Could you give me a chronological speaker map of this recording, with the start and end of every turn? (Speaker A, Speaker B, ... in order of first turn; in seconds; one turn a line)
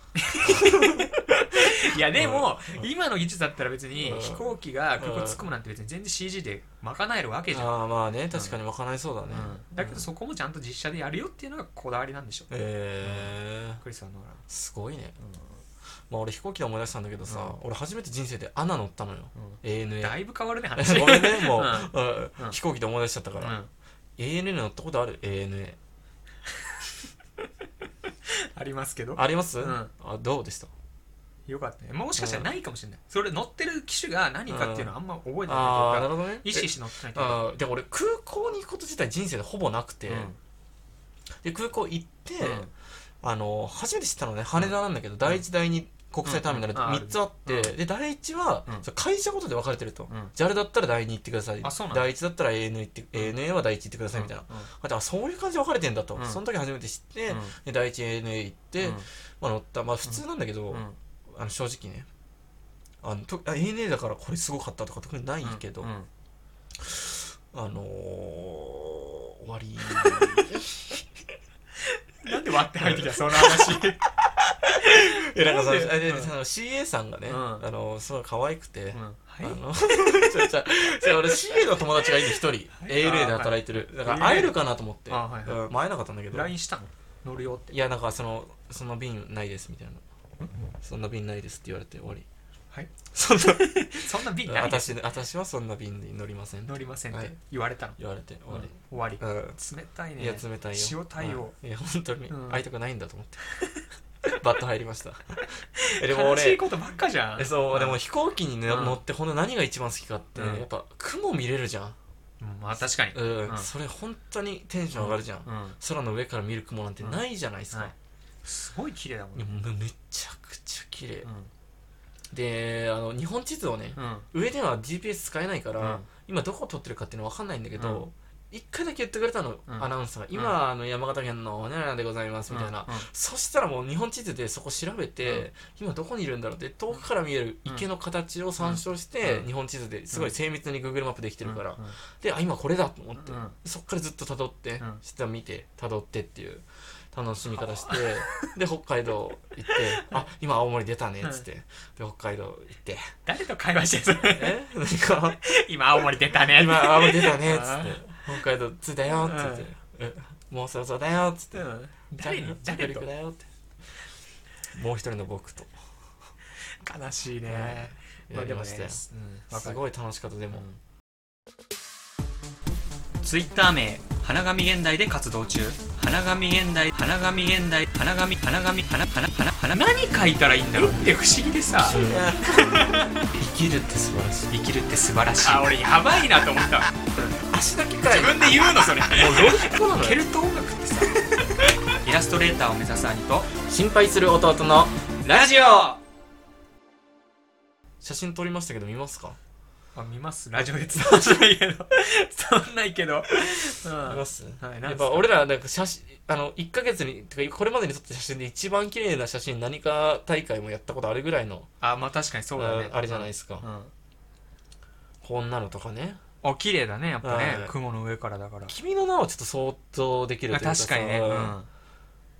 Speaker A: 0.1-7.8
Speaker B: 0.4-2.9
Speaker B: 4.0-5.4
Speaker B: 7.5-10.1
Speaker A: 9.3-12.5
Speaker B: 12.5-13.8
Speaker A: 13.0-14.4
Speaker B: 14.5-15.2
Speaker A: 15.2-15.6
Speaker B: 16.1-20.2
Speaker A: 17.2-17.6
Speaker A: 19.3-22.6
Speaker B: 20.8-23.6
Speaker A: 23.4-23.7
Speaker B: 24.2-25.8
Speaker A: 26.5-26.9
Speaker A: 28.2-29.9
Speaker B: 29.1-30.7
Speaker A: 31.5-37.4
Speaker B: 32.2-32.5
Speaker B: 34.5-34.9
Speaker B: 35.5-40.3
Speaker A: 40.1-40.4
Speaker B: 41.4-42.7
Speaker A: 42.4-42.7
Speaker B: 43.2-62.1
Speaker A: 44.5-45.4
Speaker A: 46.2-47.7
Speaker A: 50.1-50.3
Speaker A: 51.6-52.1
Speaker A: 54.1-54.7
Speaker A: 56.1-56.4
Speaker A: 57.3-57.6
Speaker A: 58.8-59.1
Speaker A: 60.0-61.0
Speaker B: 63.0-65.9
Speaker A: 65.4-66.1
Speaker B: 66.8-71.0
Speaker A: 70.0-70.3
Speaker A: 71.8-74.1
Speaker B: 72.7-86.5
Speaker A: 74.8-76.3
Speaker A: 77.3-77.7
Speaker A: 78.9-80.2
Speaker A: 82.7-84.6
Speaker A: 85.1-85.7
Speaker A: 86.3-87.7
Speaker B: 87.7-90.0
Speaker A: 90.4-90.7
Speaker B: 90.8-92.2
Speaker A: 92.7-95.0
Speaker B: 93.1-97.3
Speaker A: 96.7-101.5
Speaker B: 98.0-99.6
Speaker B: 100.2-103.4
Speaker A: 102.3-102.6
Speaker A: 103.5-103.8
Speaker B: 104.3-106.6
Speaker A: 105.7-108.0
Speaker B: 107.4-112.0
Speaker A: 108.7-109.0
Speaker A: 110.3-110.7
Speaker A: 112.4-113.7
Speaker B: 113.1-117.9
Speaker A: 114.9-115.8
Speaker A: 117.0-119.5
Speaker B: 119.3-121.3
Speaker A: 121.2-121.5
Speaker B: 122.3-153.1
Speaker A: 123.9-124.3
Speaker A: 125.8-126.1
Speaker A: 127.8-128.1
Speaker A: 129.7-130.5
Speaker A: 132.5-133.1
Speaker A: 138.6-139.5
Speaker A: 141.4-142.0
Speaker A: 143.2-143.6
Speaker A: 147.5-148.5
Speaker A: 149.7-150.2
Speaker A: 153.2-154.6
Speaker B: 154.3-155.4
Speaker A: 155.4-158.4
Speaker B: 156.3-161.6
Speaker A: 159.1-159.7
Speaker A: 161.5-163.1
Speaker B: 162.2-163.4
Speaker B: 164.7-165.7
Speaker A: 166.8-169.8
Speaker B: 167.4-170.7
Speaker A: 170.5-170.8
Speaker A: 173.2-183.3
Speaker B: 181.8-184.5
Speaker A: 184.5-187.4
Speaker B: 187.3-190.2
Speaker A: 188.1-193.5
Speaker B: 193.6-195.6
Speaker A: 195.2-196.0
Speaker B: 198.0-199.4
Speaker A: 199.9-205.3
Speaker B: 203.4-211.7
Speaker A: 211.8-213.9
Speaker B: 212.6-213.6
Speaker B: 215.2-216.2
Speaker A: 216.4-218.7
Speaker B: 217.2-217.7
Speaker B: 218.7-221.6
Speaker A: 220.5-221.7